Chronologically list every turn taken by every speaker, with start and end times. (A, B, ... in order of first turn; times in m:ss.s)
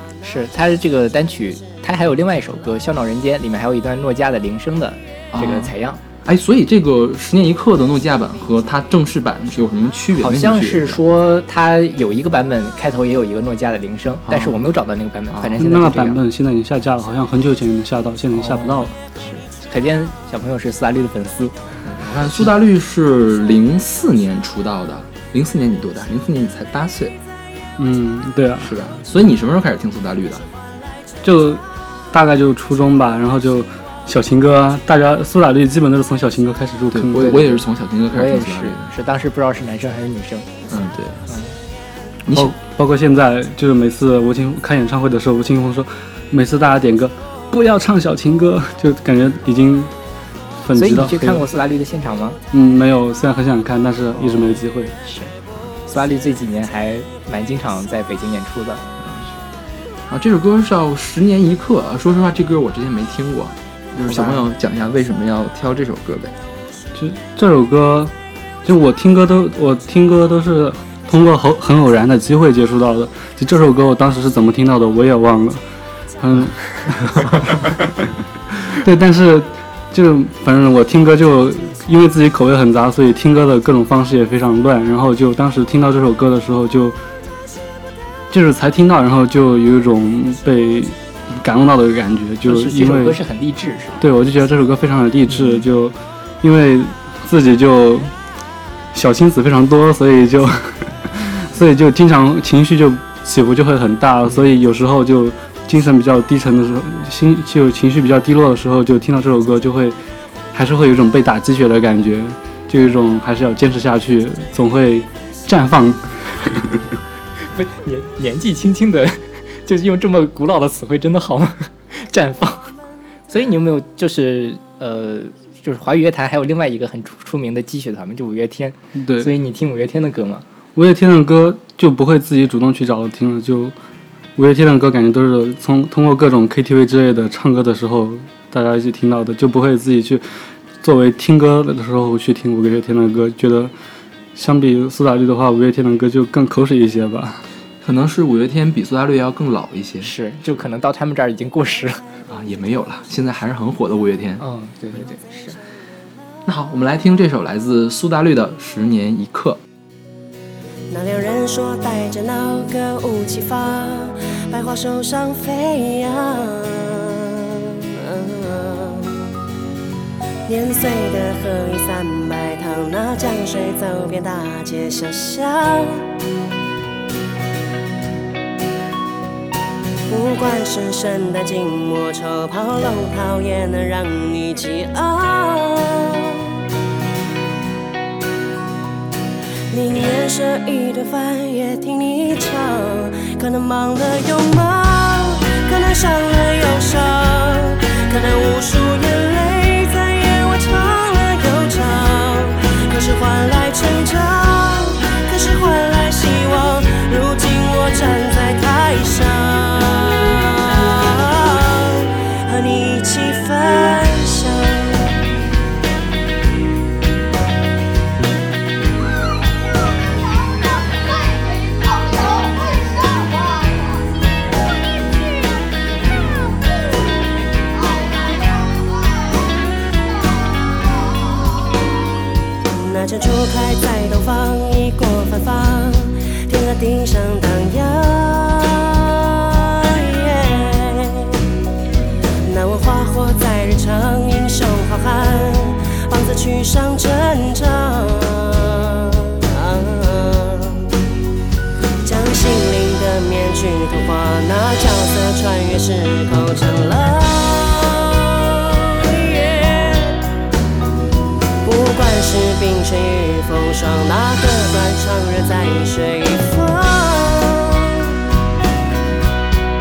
0:00.2-0:06.0 A
0:05.3-0:05.7 B
0:06.2-0:11.0 B
0:10.2-0:16.2 A
0:14.3-0:14.6 B
0:15.3-0:15.6 B
0:15.6-0:18.9 C
0:18.4-0:21.7 A
0:21.8-0:27.2 B
0:27.8-0:28.7 C
0:28.6-0:30.5 B
0:31.2-0:37.4 C
0:36.9-0:38.9 B
0:37.2-0:37.6 A
0:38.1-0:40.6 A
0:40.7-0:41.3 B
0:41.3-0:41.5 A
0:42.3-0:42.5 B
0:42.3-0:49.9 C
0:50.6-0:51.4 C
0:50.7-0:52.4 A
0:52.5-0:54.9 C
0:54.2-0:55.3 A
0:55.9-0:58.8 A
0:59.0-0:59.3 B
1:00.1-1:06.3 B
1:04.0-1:04.4 A
1:07.0-1:08.1 C
1:08.6-1:15.6 C
1:16.2-1:17.6 C
1:18.8-1:27.0 C
1:28.3-1:33.2 C
1:32.4-1:34.0 A
1:34.0-1:38.1 C
1:35.3-1:35.6 A
1:38.9-1:50.0 C
1:50.5-1:56.8 C
1:57.5-2:02.7 A
2:03.3-2:10.4 A
2:09.0-2:09.3 C
2:10.8-2:13.7 C
2:14.4-2:23.7 C
2:24.4-2:27.4 C
2:27.8-2:30.1 B
2:30.0-2:32.0 A
2:32.3-2:34.4 B
2:34.4-2:35.6 A
2:36.5-2:39.6 B
2:40.9-2:49.1 D
2:50.5-2:56.1 D
3:00.1-3:06.4 D
3:09.7-3:35.1 D
3:52.7-4:01.3 D
4:02.5-4:10.9 D
4:12.0-4:20.3 D
4:21.6-4:28.0 D